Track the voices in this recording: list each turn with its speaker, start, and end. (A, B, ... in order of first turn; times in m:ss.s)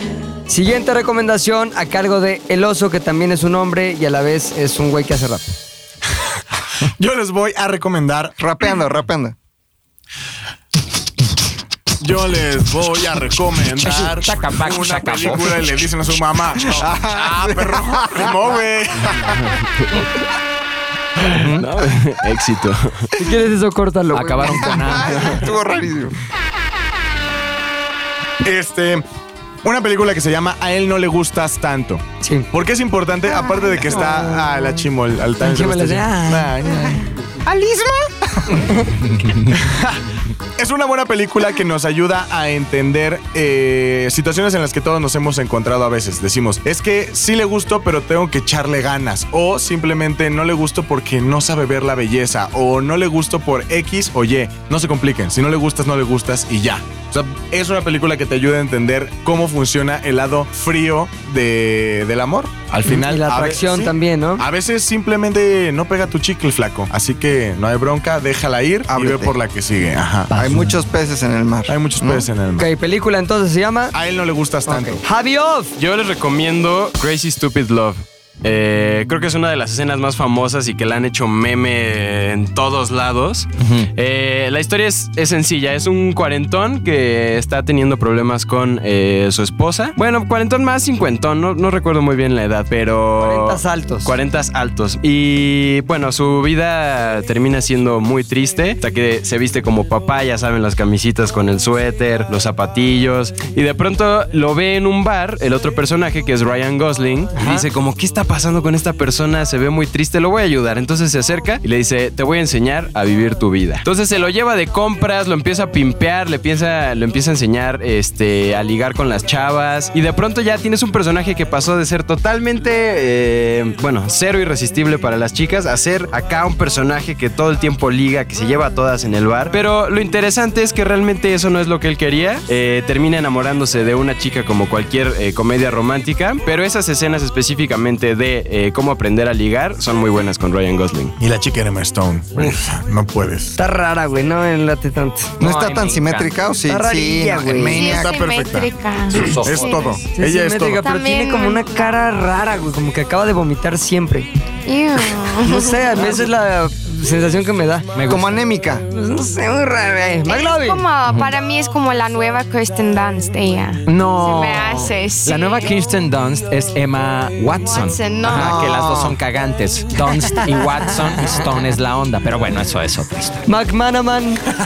0:00.5-0:05.5 A
0:06.9-0:08.4 B
0:08.4-0:09.4 C
0:12.0-0:19.4 B
0:13.8-0:15.8 D
0:16.6-0:18.5 C
0:21.3-0:21.7 D
0:21.4-0:23.1 E
0:23.2-0:25.4 A
0:24.1-0:25.4 D
0:24.6-0:26.2 C
0:28.4-0:29.0 B
0:29.6-0:37.1 B
0:32.2-0:32.5 A
0:33.9-0:34.7 A
0:35.4-0:36.9 A
0:37.4-0:38.7 C
0:39.0-0:39.6 D
0:39.5-1:10.3 B
1:02.9-1:04.4 A
1:08.9-1:09.4 C
1:10.3-1:12.3 C
1:10.3-1:10.7 D
1:11.7-1:12.7 B
1:12.6-1:13.9 A
1:13.9-1:15.0 B
1:14.7-1:15.7 A
1:15.8-2:21.2 E
1:23.6-1:23.9 D
1:33.2-1:34.1 A
1:47.3-1:47.7 A
2:21.2-2:23.5 B
2:23.6-2:25.4 A
2:25.4-2:26.4 D
2:25.4-2:28.1 C
2:26.7-2:27.8 A
2:27.7-2:30.0 F
2:27.8-2:30.8 B
2:29.1-2:29.8 D
2:30.1-2:34.3 A
2:30.8-2:32.1 F
2:34.7-2:36.2 F
2:35.4-2:37.9 A
2:38.0-2:38.3 D
2:38.1-2:38.8 C
2:38.9-2:40.8 A
2:40.3-2:45.7 F
2:43.9-2:53.4 D
2:47.7-2:48.6 F
2:48.3-2:49.2 C
2:51.2-2:51.4 A
2:53.5-2:54.4 A